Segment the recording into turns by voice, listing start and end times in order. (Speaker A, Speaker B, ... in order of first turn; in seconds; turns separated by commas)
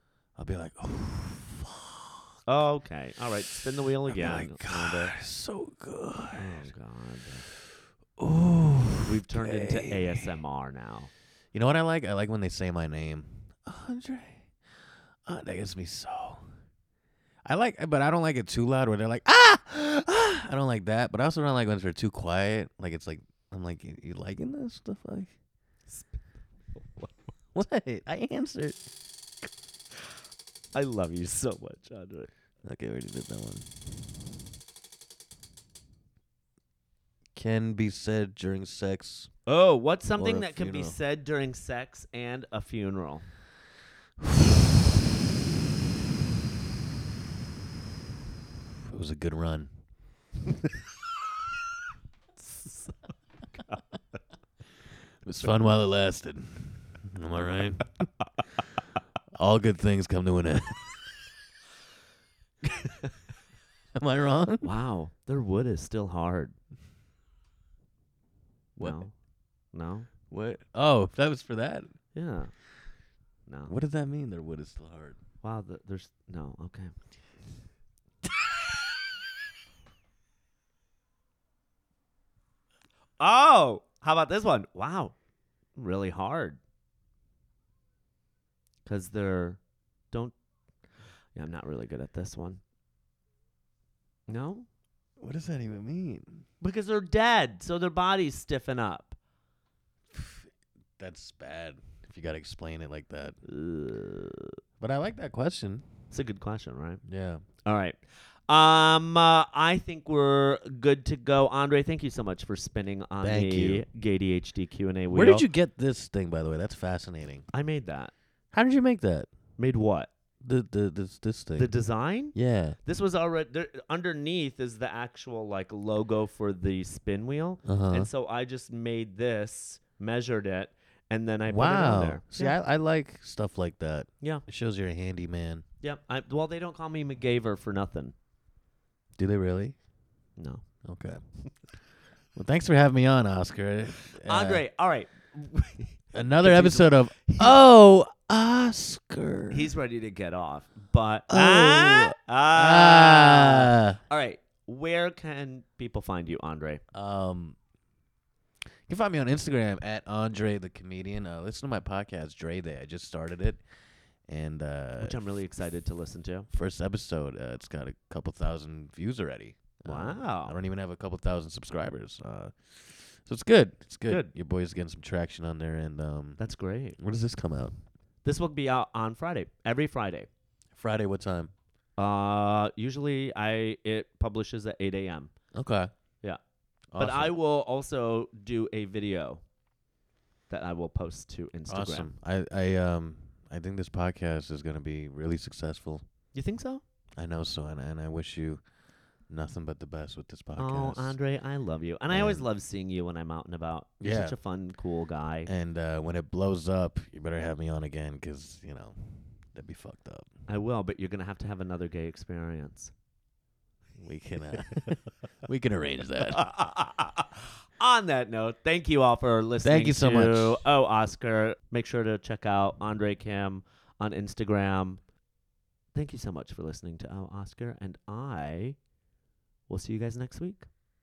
Speaker A: 0.4-2.2, Speaker B: 2.5-5.1, Speaker A: 4.1-6.6, Speaker B: 6.4-7.5, Speaker A: 8.2-10.2, Speaker B: 9.0-11.1, Speaker A: 11.5-14.5, Speaker A: 15.2-16.4, Speaker A: 17.4-25.3, Speaker B: 25.9-27.3, Speaker A: 27.6-28.8, Speaker B: 30.7-32.3, Speaker A: 32.6-33.7, Speaker A: 37.4-39.3, Speaker B: 39.5-43.3, Speaker A: 40.2-41.0, Speaker A: 48.9-49.7, Speaker B: 52.4-54.0, Speaker A: 55.2-57.9, Speaker A: 59.4-60.9, Speaker B: 62.6-63.1, Speaker A: 63.9-64.7, Speaker B: 64.6-66.5, Speaker A: 68.8-69.1, Speaker B: 68.8-69.1, Speaker B: 69.7-70.1, Speaker A: 70.3-71.9, Speaker B: 72.1-72.5, Speaker B: 73.5-73.7, Speaker A: 73.7-75.2, Speaker B: 75.4-76.9, Speaker B: 83.2-85.1, Speaker B: 85.8-86.6, Speaker B: 88.8-89.6, Speaker B: 91.3-92.6, Speaker B: 94.3-94.7, Speaker A: 95.2-96.4, Speaker B: 96.6-99.2, Speaker A: 100.1-100.5, Speaker A: 101.0-103.4, Speaker B: 103.4-104.6, Speaker A: 104.8-105.9, Speaker B: 106.1-107.0, Speaker A: 107.0-107.4, Speaker B: 107.6-115.4, Speaker A: 113.2-113.8, Speaker A: 115.1-117.5, Speaker B: 117.5-118.1, Speaker A: 118.5-119.3, Speaker B: 119.6-120.1, Speaker A: 120.4-121.7, Speaker B: 121.6-132.6, Speaker A: 122.3-122.8, Speaker A: 127.6-128.1, Speaker A: 131.5-135.6, Speaker B: 135.8-138.1, Speaker A: 139.2-139.7, Speaker B: 140.4-140.6, Speaker A: 140.8-141.2, Speaker A: 142.4-144.6, Speaker B: 144.0-147.6, Speaker A: 146.1-149.7, Speaker B: 149.5-156.8, Speaker A: 151.3-154.0, Speaker A: 156.9-157.6, Speaker A: 158.9-163.6, Speaker A: 164.3-165.2, Speaker B: 165.0-166.5, Speaker A: 166.5-176.4, Speaker B: 169.8-170.6, Speaker B: 176.4-177.0, Speaker A: 177.0-177.8, Speaker B: 178.2-180.3, Speaker A: 180.7-181.5, Speaker B: 182.0-185.3, Speaker A: 185.5-185.9, Speaker A: 186.9-187.3, Speaker B: 187.0-189.4, Speaker B: 190.5-192.1, Speaker A: 191.7-196.0, Speaker B: 196.3-196.8, Speaker A: 197.2-198.6, Speaker A: 199.3-201.1, Speaker B: 200.6-205.5, Speaker A: 202.1-202.4, Speaker A: 204.0-204.4, Speaker A: 205.4-210.3, Speaker B: 210.5-212.9, Speaker A: 214.0-216.4, Speaker B: 216.2-225.0, Speaker A: 219.6-220.6, Speaker B: 225.9-228.8, Speaker B: 229.7-230.7